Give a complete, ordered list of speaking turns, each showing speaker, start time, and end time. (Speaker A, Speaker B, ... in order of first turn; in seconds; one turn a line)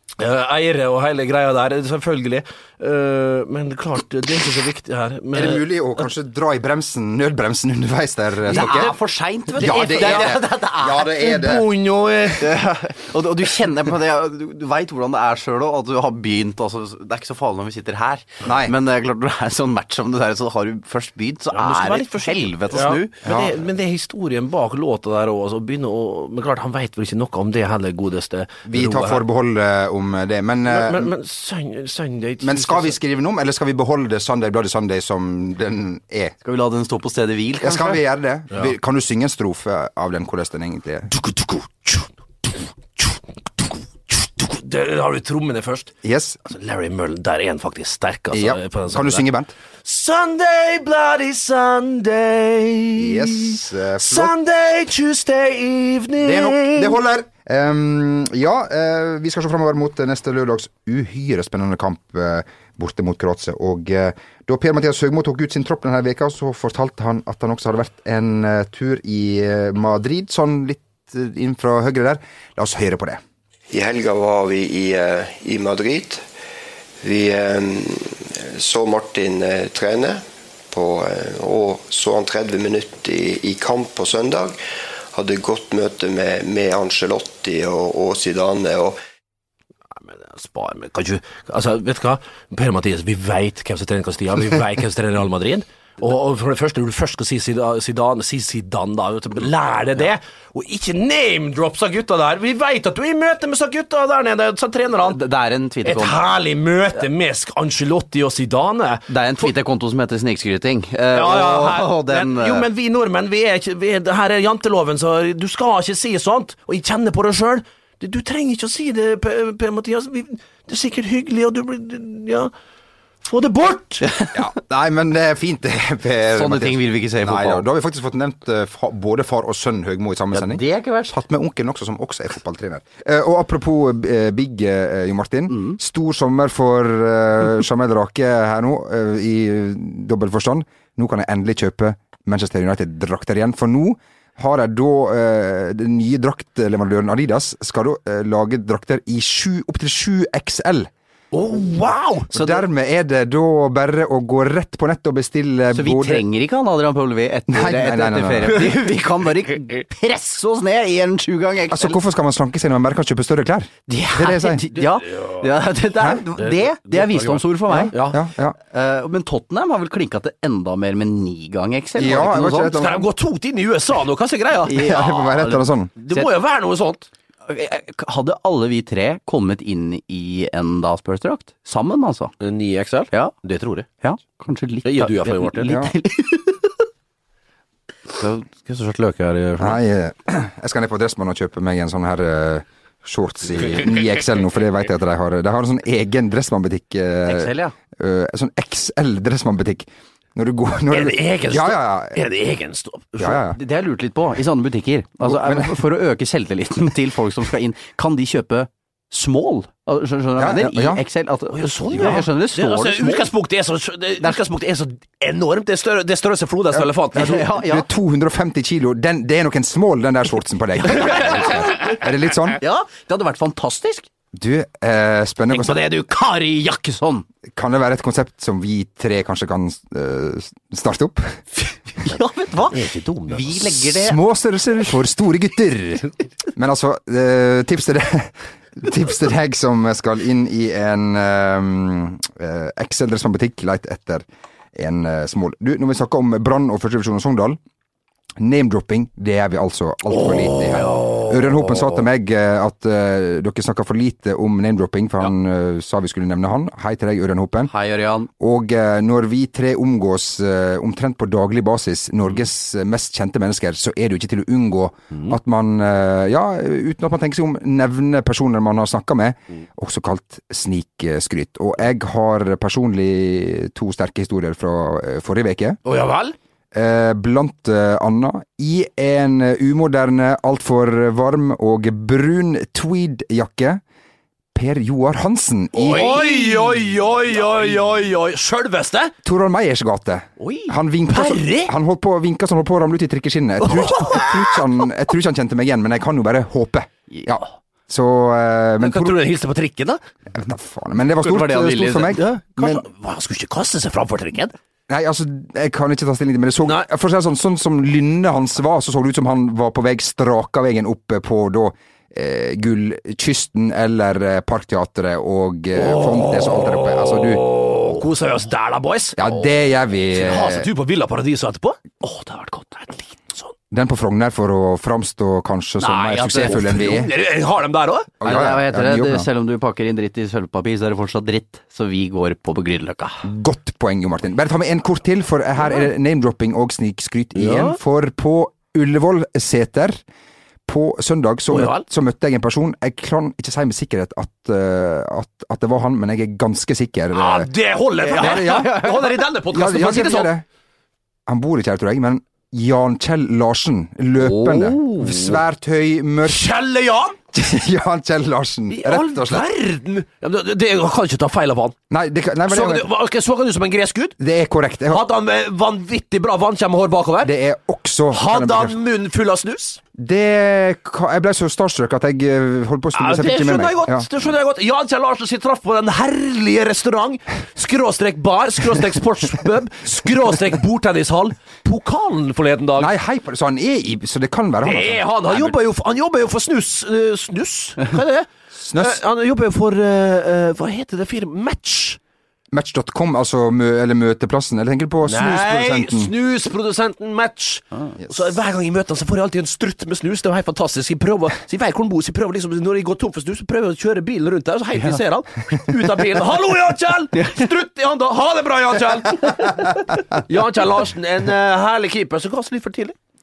Speaker A: 0.2-6.0
Speaker B: 5.3-9.0
Speaker C: 8.5-11.2
Speaker A: 8.5-8.9
Speaker A: 9.5-10.4
Speaker B: 9.6-11.7
Speaker A: 11.1-12.6
Speaker C: 12.4-23.2
Speaker B: 18.4-18.8
Speaker A: 21.5-29.2
Speaker B: 23.3-23.5
Speaker B: 28.7-31.1
Speaker A: 30.7-33.0
Speaker B: 32.4-36.4
Speaker C: 36.4-38.0
Speaker B: 37.6-41.1
Speaker A: 41.1-45.9
Speaker B: 46.0-46.4
Speaker A: 46.5-49.3
Speaker B: 48.3-49.5
Speaker A: 49.9-57.0
Speaker B: 53.0-54.3
Speaker B: 56.2-73.2
Speaker D: 73.7-76.2
Speaker D: 77.0-84.6
Speaker D: 85.1-89.0
Speaker A: 89.9-105.2
Speaker C: 105.1-106.2
Speaker A: 105.8-109.5
Speaker C: 109.1-112.7
Speaker A: 111.1-122.5
Speaker A: 123.2-124.1
Speaker C: 124.0-124.3
Speaker B: 124.3-150.9
Speaker C: 126.3-127.7
Speaker C: 130.3-131.1
Speaker A: 151.3-152.7
Speaker B: 152.3-156.3
Speaker C: 155.7-162.0
Speaker B: 157.5-158.7
Speaker B: 161.7-164.7
Speaker C: 163.9-168.0
Speaker A: 164.7-165.5
Speaker A: 166.3-168.2
Speaker B: 167.7-168.6
Speaker C: 168.7-172.8
Speaker B: 172.0-173.1
Speaker A: 172.7-174.8
Speaker C: 174.7-176.3
Speaker B: 174.8-175.9
Speaker A: 176.0-177.1
Speaker C: 177.5-182.3
Speaker A: 182.4-183.9
Speaker C: 184.0-186.6
Speaker A: 184.8-185.9
Speaker A: 188.2-189.8
Speaker B: 189.6-202.2
Speaker C: 197.3-197.8
Speaker A: 200.9-203.4
Speaker B: 203.2-203.6
Speaker C: 203.5-213.3
Speaker B: 205.2-205.8
Speaker B: 210.4-211.0
Speaker A: 211.5-217.5
Speaker C: 217.1-217.9
Speaker B: 217.2-222.6
Speaker C: 222.6-224.1
Speaker B: 224.3-225.9
Speaker A: 225.5-227.0
Speaker C: 226.1-227.2
Speaker B: 227.5-231.4
Speaker C: 232.0-234.2
Speaker A: 232.6-233.9
Speaker B: 234.0-247.6
Speaker B: 248.4-257.7
Speaker A: 250.2-251.9
Speaker C: 257.7-258.3
Speaker B: 258.4-275.8
Speaker A: 275.9-276.4
Speaker B: 276.7-283.8
Speaker B: 284.6-286.2
Speaker A: 285.8-289.1
Speaker C: 285.9-286.9
Speaker B: 289.2-299.2
Speaker A: 290.4-291.7
Speaker A: 293.6-294.6
Speaker A: 298.8-300.0
Speaker B: 300.3-302.8
Speaker C: 301.2-302.4
Speaker A: 302.1-304.6
Speaker B: 304.9-317.4
Speaker A: 306.6-306.9
Speaker A: 315.8-319.4
Speaker B: 319.2-320.7
Speaker A: 320.1-323.5
Speaker B: 323.7-327.1
Speaker A: 325.8-328.3
Speaker B: 328.2-329.3
Speaker C: 328.2-333.2
Speaker B: 333.2-340.0
Speaker A: 337.4-337.8
Speaker B: 340.7-347.5
Speaker A: 341.5-341.8
Speaker A: 347.1-350.3
Speaker C: 348.1-349.2
Speaker B: 348.2-348.9
Speaker B: 349.5-350.4
Speaker B: 351.3-356.4
Speaker C: 354.3-355.3
Speaker A: 356.2-357.2
Speaker B: 357.3-359.5
Speaker A: 358.7-361.8
Speaker B: 361.9-362.9
Speaker A: 362.5-364.2
Speaker B: 364.2-365.1
Speaker A: 364.9-367.3
Speaker B: 367.2-368.8
Speaker A: 368.1-369.8
Speaker B: 369.9-374.1
Speaker A: 372.9-382.9
Speaker B: 382.8-385.6
Speaker A: 384.6-392.0
Speaker B: 388.6-389.0
Speaker B: 392.5-396.1
Speaker A: 395.0-413.0